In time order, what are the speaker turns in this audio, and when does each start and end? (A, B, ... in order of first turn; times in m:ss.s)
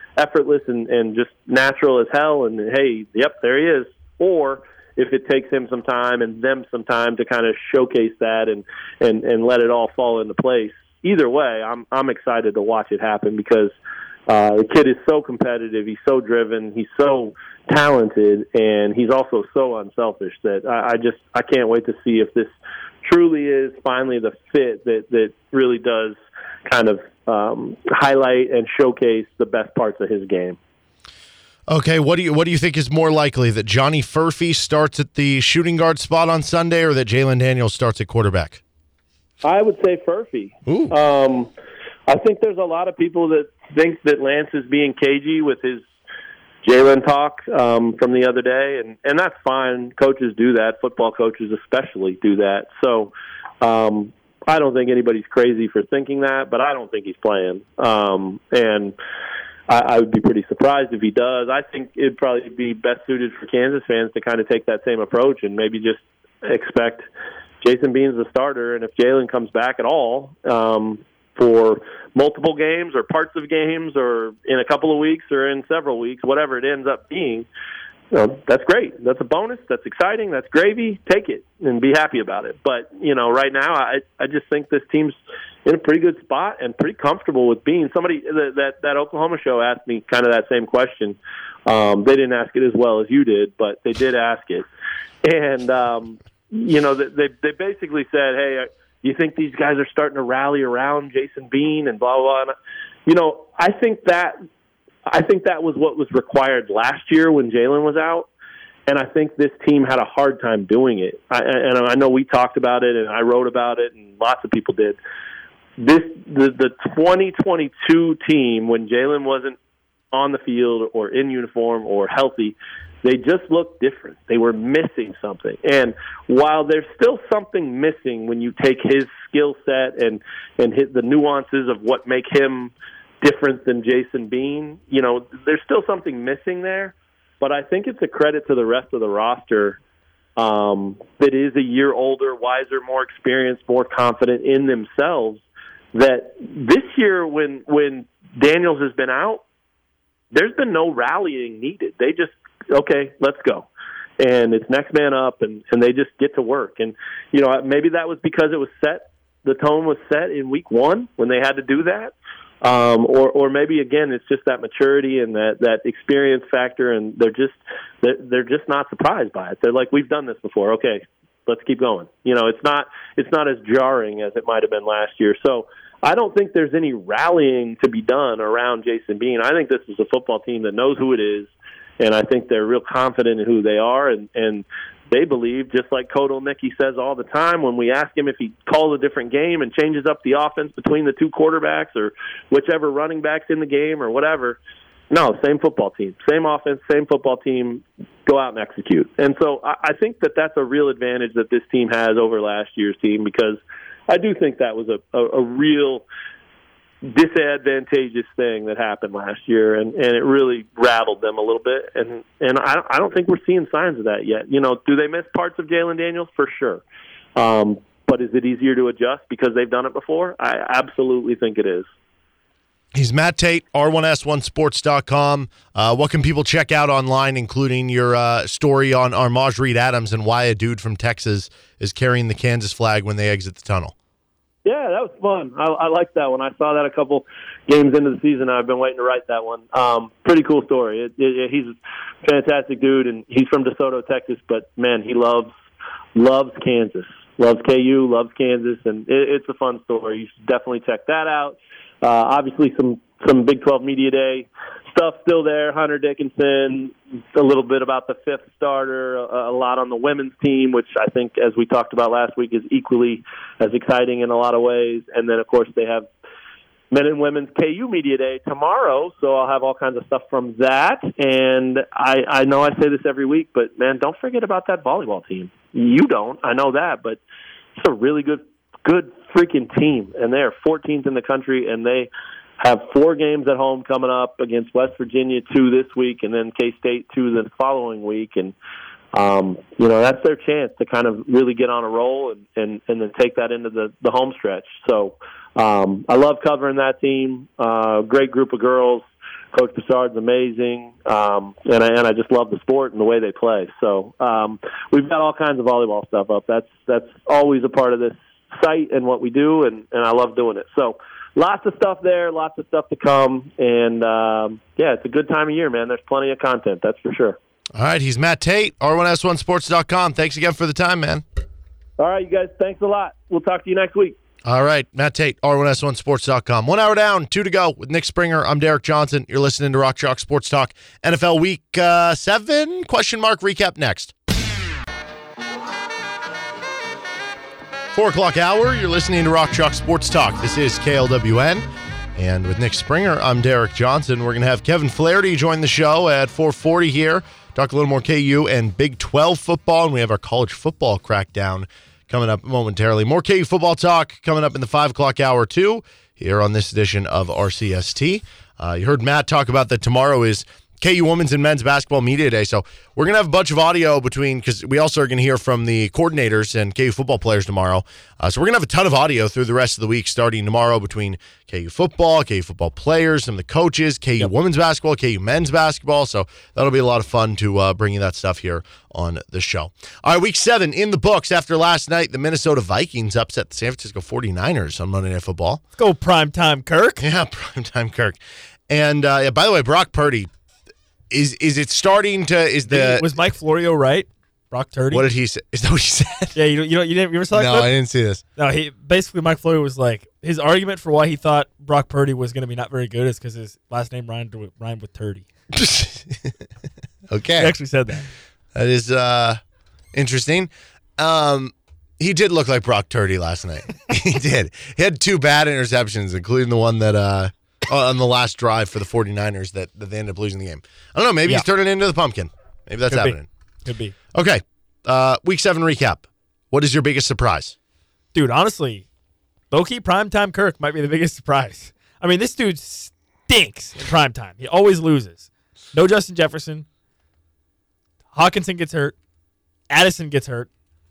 0:00.2-0:13.7 A
0:14.3-0:22.5 A
0:23.0-0:30.6 A
0:31.7-0:38.6 B
0:39.4-0:41.5 A
0:40.6-0:40.9 B
0:42.1-0:45.8 A
0:46.6-0:59.0 A
0:59.7-1:07.1 A
1:07.6-1:17.5 A
1:18.1-1:34.7 A
1:35.2-1:42.5 A
1:43.0-1:44.4 A
1:45.0-1:48.3 A
1:48.9-1:55.0 A
1:55.8-1:59.6 A
2:00.1-2:19.8 A
2:20.4-2:25.4 A
2:25.9-2:29.4 A
2:30.3-2:33.7 A
2:34.2-3:14.6 A
3:15.1-3:26.0 A
3:27.0-3:36.8 A
3:37.4-3:41.9 A
3:42.9-3:53.9 B
3:54.6-4:05.5 A
4:06.1-4:26.1 A
4:26.9-4:37.2 A
4:37.8-4:48.5 A
4:49.1-5:17.4 A
5:17.7-5:21.2 B
5:22.0-5:24.2 A
5:24.4-5:34.1 B
5:37.9-6:25.6 B
6:25.8-6:27.0 C
6:27.0-6:30.3 B
6:31.1-6:33.1 B
6:32.7-6:35.1 C
6:34.9-6:36.4 B
6:36.3-6:37.7 C
6:37.3-6:38.2 B
6:38.4-6:45.2 C
6:45.5-6:46.4 B
6:47.1-6:47.5 B
6:47.4-6:48.1 C
6:48.5-6:49.4 B
6:49.9-7:03.3 B
7:02.9-7:03.9 C
7:04.1-7:07.6 B
7:08.1-7:08.8 C
7:09.5-7:16.6 C
7:18.1-7:18.9 C
7:19.7-7:20.5 C